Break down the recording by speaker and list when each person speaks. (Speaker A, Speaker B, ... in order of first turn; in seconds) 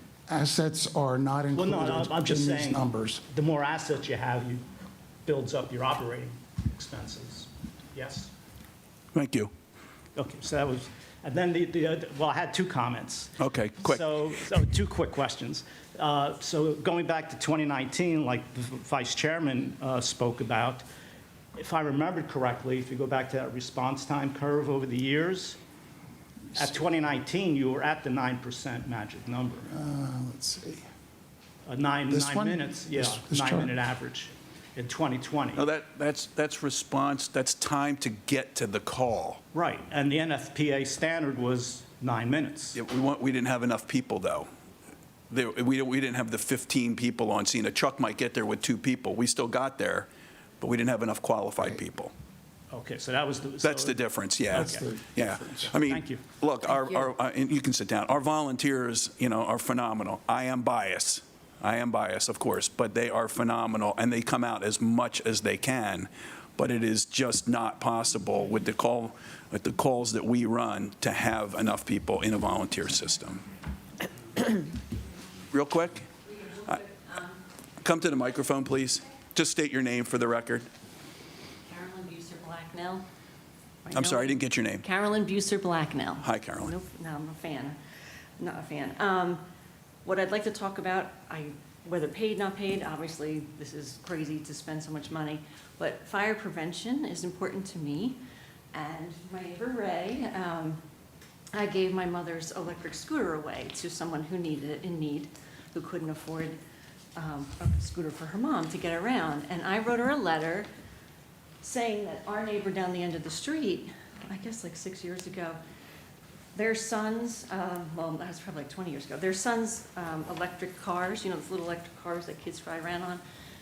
Speaker A: 0.3-3.2, 29.7-30.8, 32.1-33.7, 54.5-55.7
Speaker B: 1.5-4.6, 5.2-8.3, 10.1-20.8, 21.5-25.6, 26.5-29.7, 31.6-35.6, 39.5-42.8, 52.7-54.8, 55.7-56.2
Speaker C: 9.1-9.5, 13.4-14.0, 35.5-39.4, 42.7-44.5, 45.3-50.1, 50.6-52.1, 53.6-73.4, 75.5-76.0, 77.8-80.7, 83.9-84.8, 86.2-86.7
Speaker D: 76.4-77.3, 81.6-83.0, 83.8-87.8, 88.4-89.4, 90.0-98.2, 98.7-100.8, 101.5-106.6, 107.2-110.7, 111.6-115.6, 116.5-123.2